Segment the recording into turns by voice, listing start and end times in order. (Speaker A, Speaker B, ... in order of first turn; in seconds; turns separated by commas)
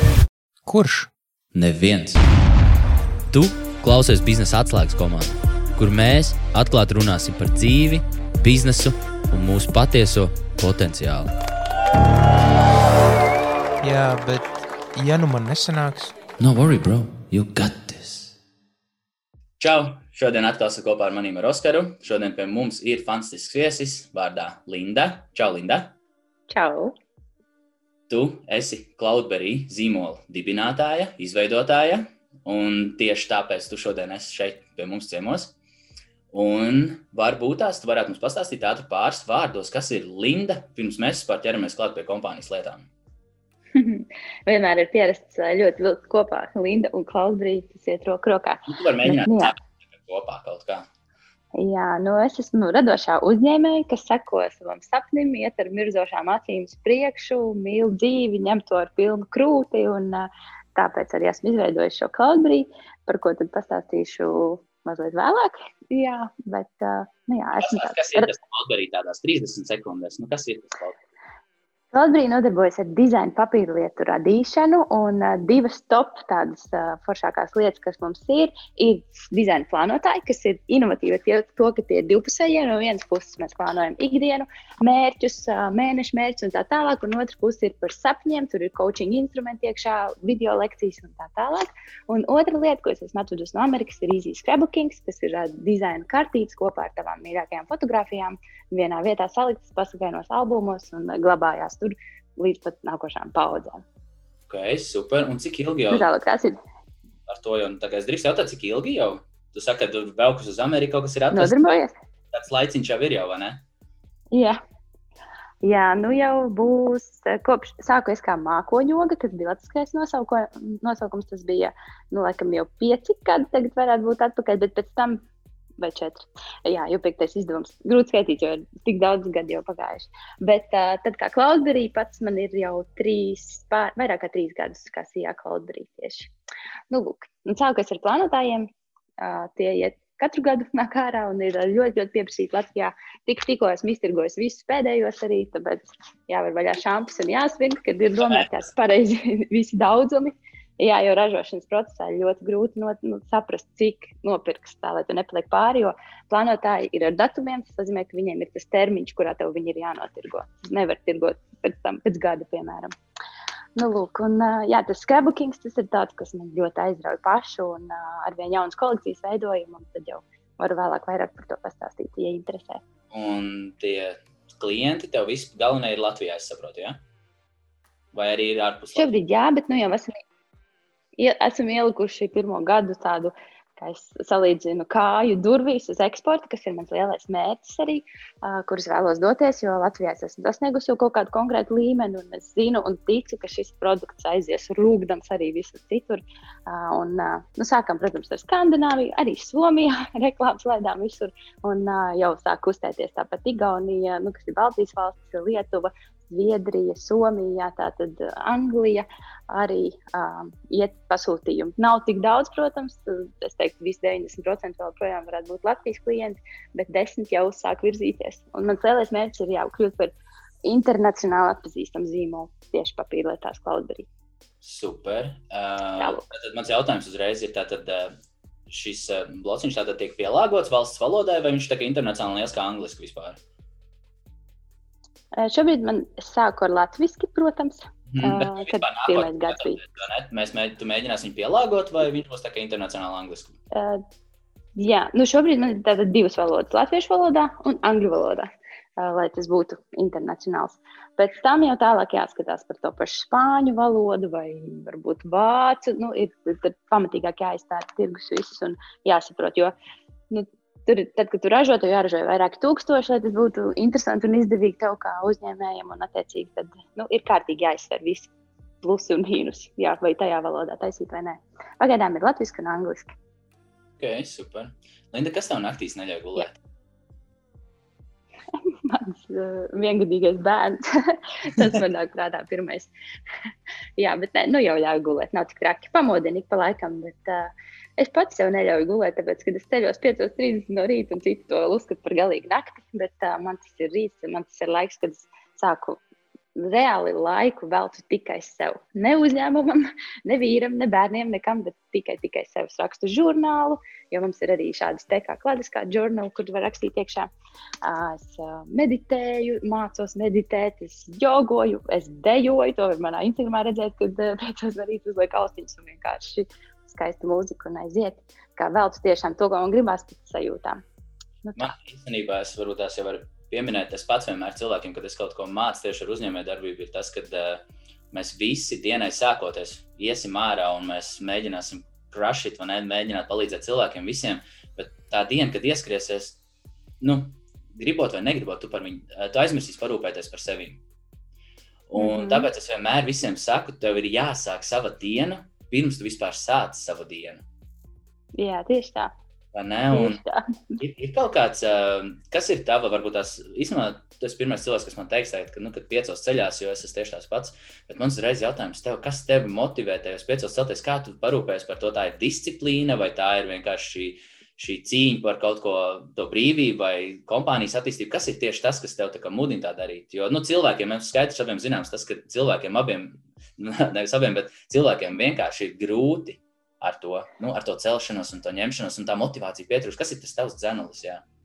Speaker A: 0.7-1.1, Speaker B: 1.5-2.2, Speaker B: 3.3-11.3, Speaker A: 13.8-16.1, Speaker B: 16.4-18.3, Speaker B: 19.6-26.0, Speaker C: 26.5-26.9, Speaker B: 28.1-35.5, Speaker B: 36.3-42.9, Speaker C: 43.8-49.5, Speaker B: 48.7-50.9, Speaker C: 51.6-68.3, Speaker B: 67.5-71.0, Speaker C: 71.9-103.8, Speaker B: 104.5-106.0, Speaker C: 105.9-106.6, Speaker B: 107.3-111.8, Speaker C: 111.3-112.0, Speaker B: 112.3-113.6, Speaker C: 114.3-114.6, Speaker C: 115.6-125.2, Speaker C: 125.8-136.3, Speaker C: 136.9-162.9, Speaker B: 148.2-148.6, Speaker C: 163.8-172.8, Speaker B: 173.1-177.0, Speaker B: 178.1-179.1, Speaker C: 178.9-180.2, Speaker C: 181.2-220.1, Speaker C: 220.6-224.1, Speaker B: 224.6-233.4, Speaker C: 226.0-226.2, Speaker C: 235.4-239.8, Speaker B: 238.1-243.6, Speaker C: 243.7-244.0, Speaker C: 244.8-248.5, Speaker C: 249.0-259.7, Speaker C: 260.3-268.3, Speaker C: 268.8-273.1, Speaker B: 274.0-276.6, Speaker C: 278.6-282.9, Speaker C: 284.0-296.0, Speaker C: 296.6-307.3, Speaker C: 307.8-320.8, Speaker C: 321.4-321.7, Speaker B: 321.6-336.4, Speaker B: 337.0-340.8, Speaker B: 341.9-347.4, Speaker C: 342.0-342.5, Speaker C: 348.4-349.1, Speaker B: 349.5-350.2, Speaker C: 349.9-350.5, Speaker B: 350.8-381.2